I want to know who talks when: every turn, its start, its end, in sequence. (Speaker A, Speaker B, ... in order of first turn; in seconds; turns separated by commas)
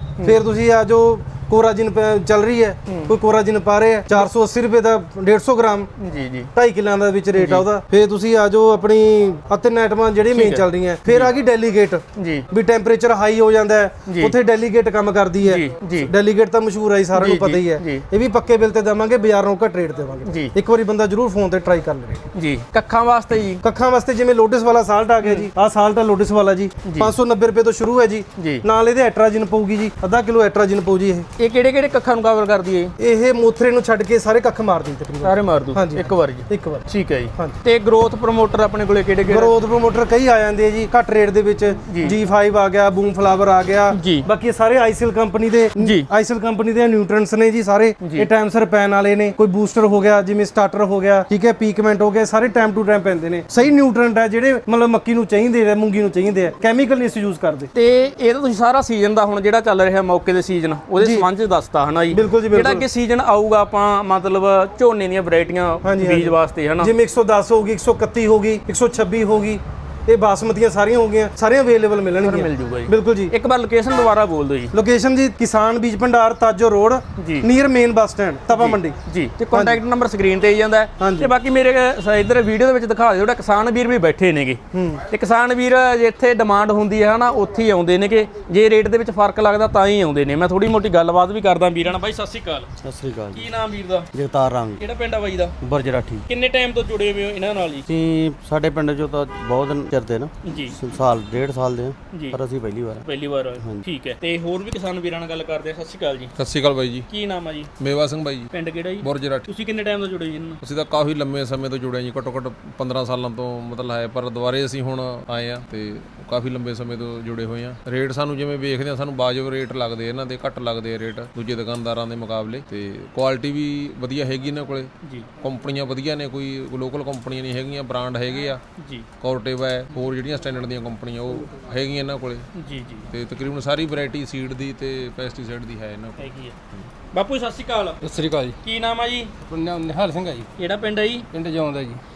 Speaker A: 0.2-5.9, Speaker B: 2.9-3.1, Speaker B: 6.0-6.5, Speaker A: 6.5-22.3, Speaker B: 7.4-7.7, Speaker B: 10.3-11.3, Speaker B: 12.2-12.5, Speaker B: 14.1-14.3, Speaker B: 15.4-16.1, Speaker B: 17.1-18.0, Speaker B: 20.3-20.5, Speaker B: 22.4-23.6, Speaker A: 23.6-31.3, Speaker B: 25.2-25.5, Speaker B: 26.9-27.1, Speaker B: 28.4-28.6, Speaker B: 31.4-32.9, Speaker A: 33.0-37.6, Speaker B: 35.2-39.5, Speaker A: 39.3-57.7, Speaker B: 41.9-42.2, Speaker B: 43.9-44.3, Speaker B: 45.8-46.1, Speaker B: 48.0-48.3, Speaker B: 57.7-66.9, Speaker A: 61.0-61.3, Speaker A: 62.1-62.9, Speaker A: 65.8-73.3, Speaker B: 72.2-74.7, Speaker A: 74.7-79.0, Speaker B: 77.2-77.5, Speaker B: 78.5-92.7, Speaker A: 79.5-79.8, Speaker A: 81.0-81.3, Speaker A: 84.7-85.0, Speaker C: 92.8-93.4, Speaker B: 93.3-94.1, Speaker C: 94.2-94.8, Speaker B: 94.8-95.5, Speaker C: 95.7-96.2, Speaker B: 96.3-97.9, Speaker C: 97.9-103.0, Speaker B: 100.4-100.8, Speaker B: 102.1-102.4, Speaker B: 103.0-106.3, Speaker D: 106.4-107.1, Speaker B: 107.1-107.7, Speaker D: 107.8-109.5, Speaker B: 108.5-110.6, Speaker D: 110.6-128.6, Speaker B: 128.8-129.1, Speaker D: 129.2-132.5, Speaker B: 132.6-133.1, Speaker D: 133.1-136.8, Speaker B: 136.2-136.6, Speaker B: 137.1-138.0, Speaker E: 138.0-138.6, Speaker B: 138.6-139.3, Speaker E: 139.4-140.5, Speaker B: 140.6-141.3, Speaker E: 141.3-142.0